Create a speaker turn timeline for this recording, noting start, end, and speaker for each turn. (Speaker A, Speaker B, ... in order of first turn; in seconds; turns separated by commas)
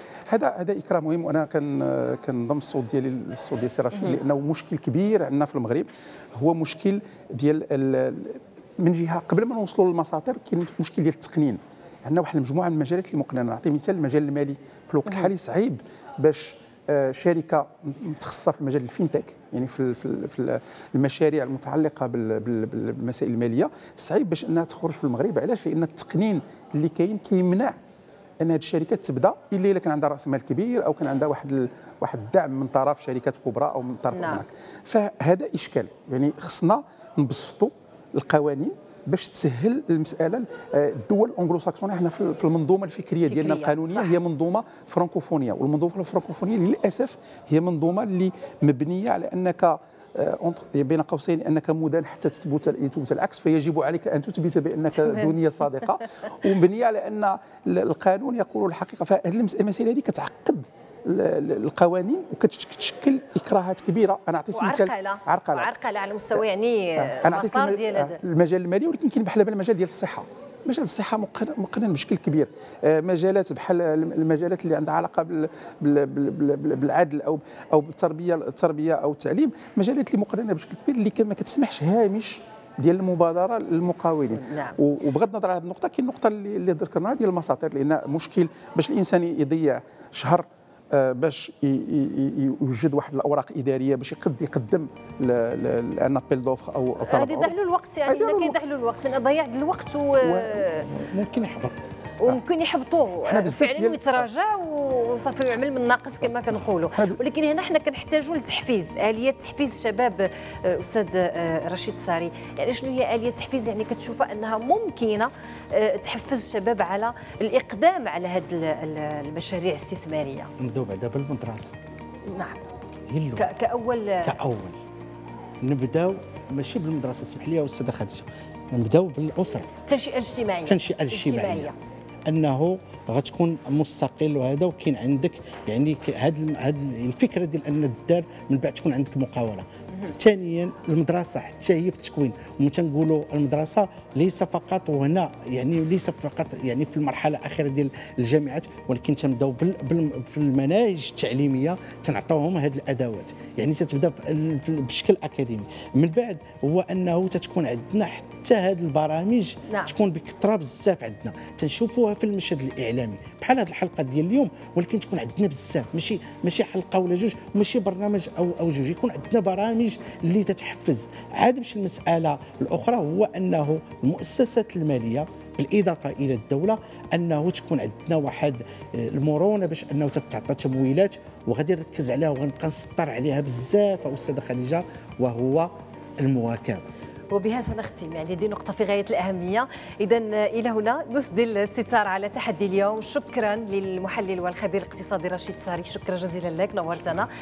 Speaker A: 0.3-27.8, Speaker A: 28.4-65.7, Speaker B: 34.1-34.4, Speaker B: 43.2-44.1, Speaker B: 55.0-55.3, Speaker B: 64.5-68.2, Speaker A: 67.0-97.5, Speaker B: 84.3-84.8, Speaker B: 97.0-100.9, Speaker A: 98.0-98.7, Speaker C: 100.2-101.9, Speaker B: 102.2-120.5, Speaker A: 103.2-104.3, Speaker A: 106.5-107.2, Speaker C: 120.6-121.7, Speaker B: 122.3-122.6, Speaker C: 123.1-123.5, Speaker B: 123.3-124.3, Speaker C: 124.2-124.8, Speaker C: 125.6-129.7, Speaker B: 129.8-131.7, Speaker C: 130.6-131.7, Speaker C: 132.3-186.8, Speaker B: 159.7-159.9, Speaker B: 187.3-197.3